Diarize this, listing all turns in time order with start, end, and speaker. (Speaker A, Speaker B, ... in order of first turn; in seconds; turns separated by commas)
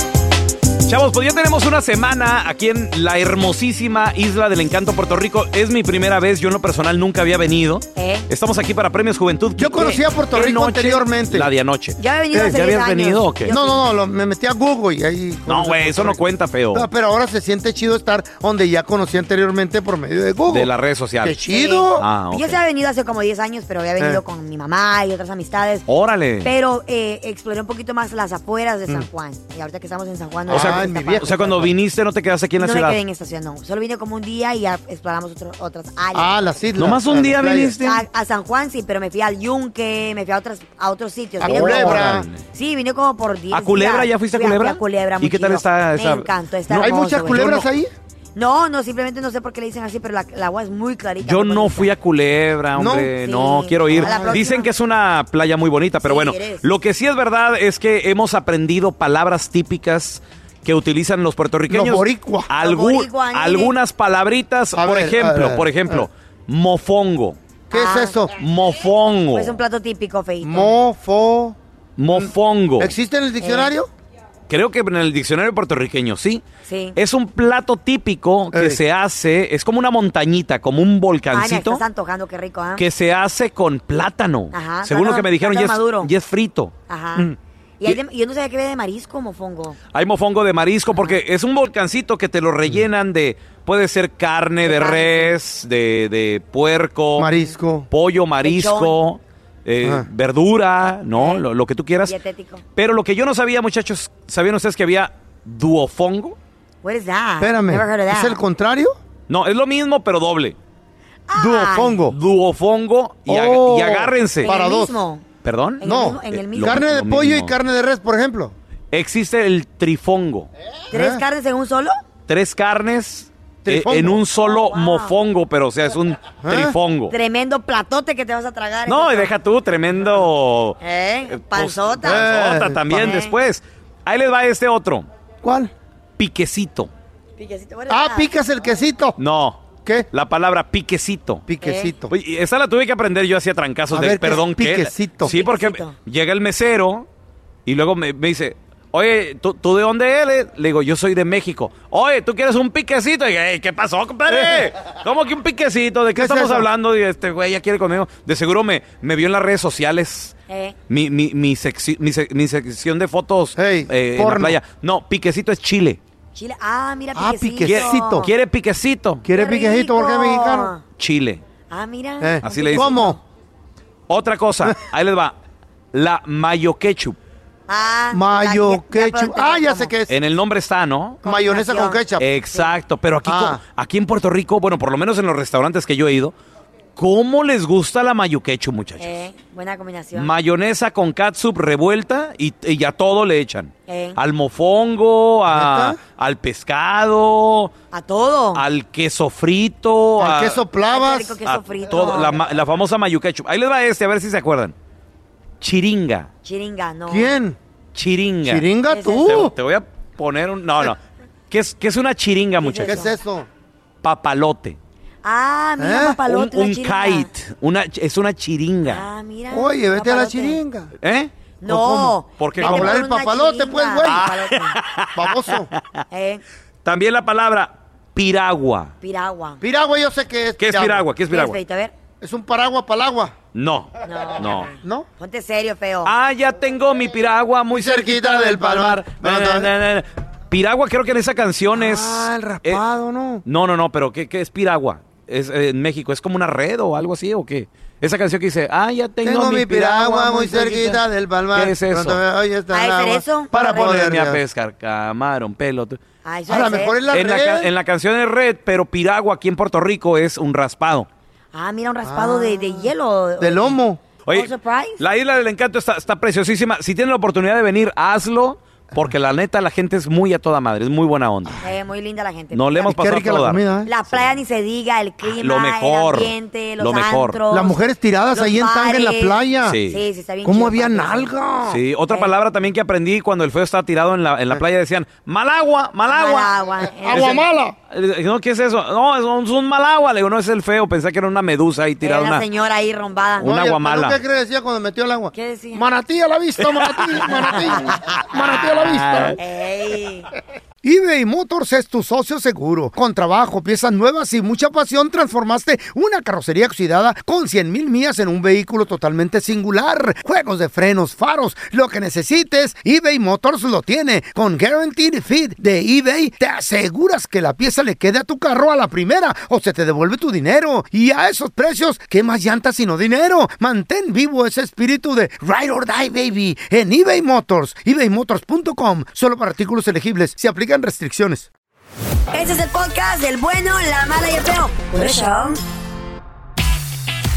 Speaker A: 0.9-13.5, Speaker B: 8.0-8.3, Speaker C: 9.6-11.5, Speaker B: 12.0-13.8, Speaker C: 12.3-12.6, Speaker C: 13.5-16.2, Speaker A: 15.5-16.9, Speaker C: 16.7-20.7, Speaker A: 20.5-21.4, Speaker C: 21.2-22.1, Speaker B: 21.4-25.9, Speaker A: 22.0-22.6, Speaker A: 25.9-26.5, Speaker B: 26.4-31.3, Speaker C: 30.5-31.7, Speaker A: 30.5-33.0, Speaker B: 32.6-36.3, Speaker C: 36.1-37.7, Speaker A: 36.8-38.0, Speaker B: 37.8-47.6, Speaker C: 41.4-42.3, Speaker A: 41.4-42.4, Speaker A: 43.5-47.6, Speaker C: 46.7-47.9, Speaker B: 48.3-51.9, Speaker A: 51.2-67.4, Speaker C: 52.8-53.1, Speaker B: 53.2-54.7, Speaker C: 53.9-54.4, Speaker B: 56.0-56.6, Speaker C: 61.7-62.5, Speaker B: 62.6-63.7, Speaker C: 64.7-66.0, Speaker B: 67.7-68.2, Speaker C: 67.7-68.4, Speaker A: 68.4-69.5, Speaker B: 69.3-70.7, Speaker C: 70.4-71.6, Speaker A: 72.0-72.9, Speaker C: 72.1-73.9, Speaker B: 73.4-73.7, Speaker A: 74.5-76.4, Speaker B: 76.7-77.0, Speaker A: 77.0-81.8, Speaker C: 78.5-78.8, Speaker B: 81.3-82.8, Speaker A: 82.8-86.7, Speaker B: 84.5-86.1, Speaker B: 86.9-87.3, Speaker B: 87.8-89.8, Speaker A: 89.9-97.3, Speaker B: 90.9-91.2, Speaker B: 94.6-95.4, Speaker C: 97.2-97.9, Speaker A: 97.9-102.1, Speaker B: 98.4-99.0, Speaker C: 99.8-100.1, Speaker B: 101.1-101.4, Speaker B: 102.0-102.6, Speaker A: 102.8-106.3, Speaker B: 106.8-108.4, Speaker C: 107.4-109.0, Speaker A: 109.3-110.6, Speaker B: 111.3-112.0, Speaker C: 111.3-112.2, Speaker A: 112.1-114.5, Speaker C: 113.3-115.0, Speaker B: 114.4-115.2, Speaker A: 115.4-117.5, Speaker B: 115.8-116.8, Speaker C: 115.8-118.5, Speaker A: 118.9-120.5, Speaker C: 120.9-121.2, Speaker B: 120.9-121.9, Speaker A: 122.3-127.1, Speaker C: 123.6-124.2, Speaker B: 124.3-125.2, Speaker C: 126.4-126.8, Speaker B: 127.1-129.3, Speaker A: 128.9-135.1, Speaker B: 130.8-132.3, Speaker C: 132.0-132.8, Speaker B: 132.9-133.3, Speaker C: 135.4-135.7, Speaker A: 136.2-136.9, Speaker B: 137.4-138.3, Speaker C: 137.9-139.2, Speaker A: 139.2-141.4, Speaker C: 141.5-142.1, Speaker B: 141.6-141.9, Speaker A: 142.1-147.1, Speaker C: 143.9-145.3, Speaker B: 145.2-145.9, Speaker A: 147.7-160.3, Speaker C: 156.1-156.7, Speaker B: 160.5-160.8, Speaker A: 160.9-166.0, Speaker C: 163.6-164.6, Speaker B: 166.3-168.3, Speaker C: 167.1-168.3, Speaker A: 167.6-169.2, Speaker C: 169.2-170.7, Speaker B: 169.3-170.8, Speaker A: 171.0-171.4, Speaker B: 171.7-173.2, Speaker C: 172.2-173.2, Speaker A: 172.4-172.9, Speaker A: 174.1-175.3, Speaker A: 175.9-177.2, Speaker B: 177.7-179.9, Speaker C: 178.1-180.2, Speaker A: 180.1-181.2, Speaker C: 181.2-182.2, Speaker B: 181.2-182.0, Speaker A: 182.2-186.3, Speaker C: 183.2-183.6, Speaker A: 186.9-189.2, Speaker B: 189.0-190.3, Speaker A: 190.1-197.7, Speaker B: 193.9-194.2, Speaker C: 195.5-196.0, Speaker B: 197.9-198.6, Speaker A: 198.5-200.6, Speaker C: 200.2-201.4, Speaker B: 200.9-202.4, Speaker A: 201.4-204.7, Speaker A: 205.6-206.3, Speaker B: 206.4-207.3, Speaker C: 207.1-207.6, Speaker A: 207.9-208.7, Speaker C: 208.4-209.5, Speaker B: 208.9-209.4, Speaker A: 209.2-211.0, Speaker A: 211.5-213.0, Speaker B: 212.6-213.1, Speaker C: 212.8-213.5, Speaker A: 214.0-214.8, Speaker B: 215.2-217.3, Speaker C: 215.8-216.2, Speaker A: 216.3-219.0, Speaker B: 218.8-220.6, Speaker C: 219.5-220.9, Speaker A: 221.0-221.3, Speaker B: 221.6-224.8, Speaker C: 221.6-224.3, Speaker A: 222.4-223.0, Speaker A: 224.0-225.8, Speaker C: 225.1-225.7, Speaker B: 226.1-226.4, Speaker A: 226.8-228.9, Speaker B: 229.0-229.6, Speaker C: 229.6-231.1, Speaker A: 230.6-231.6, Speaker B: 231.3-231.9, Speaker C: 232.2-233.3, Speaker A: 233.5-234.7, Speaker B: 234.0-236.1, Speaker C: 234.8-235.1, Speaker A: 236.0-242.8, Speaker C: 237.7-239.7, Speaker C: 241.7-243.4, Speaker A: 243.4-251.0, Speaker C: 249.2-254.4, Speaker A: 251.5-252.2, Speaker B: 252.7-254.0, Speaker A: 253.7-256.0, Speaker B: 256.2-256.9, Speaker C: 256.5-257.7, Speaker A: 257.1-261.1, Speaker B: 261.5-263.8, Speaker C: 262.0-264.0, Speaker A: 264.2-271.6, Speaker B: 264.3-265.0, Speaker B: 271.6-272.9, Speaker A: 272.5-273.6, Speaker C: 272.9-273.9, Speaker B: 273.8-277.8, Speaker A: 275.2-277.4, Speaker C: 277.5-279.8, Speaker B: 278.3-281.3, Speaker A: 279.6-280.0, Speaker C: 280.4-281.8, Speaker A: 281.7-286.5, Speaker B: 286.1-287.4, Speaker C: 287.0-287.7, Speaker A: 287.1-287.4, Speaker A: 287.9-292.4, Speaker B: 292.0-293.5, Speaker A: 293.4-294.2, Speaker C: 293.4-299.4, Speaker B: 295.3-295.9, Speaker A: 296.6-297.6, Speaker B: 297.5-297.9, Speaker A: 298.1-299.4, Speaker B: 299.4-300.3, Speaker C: 300.8-331.5, Speaker B: 332.3-335.6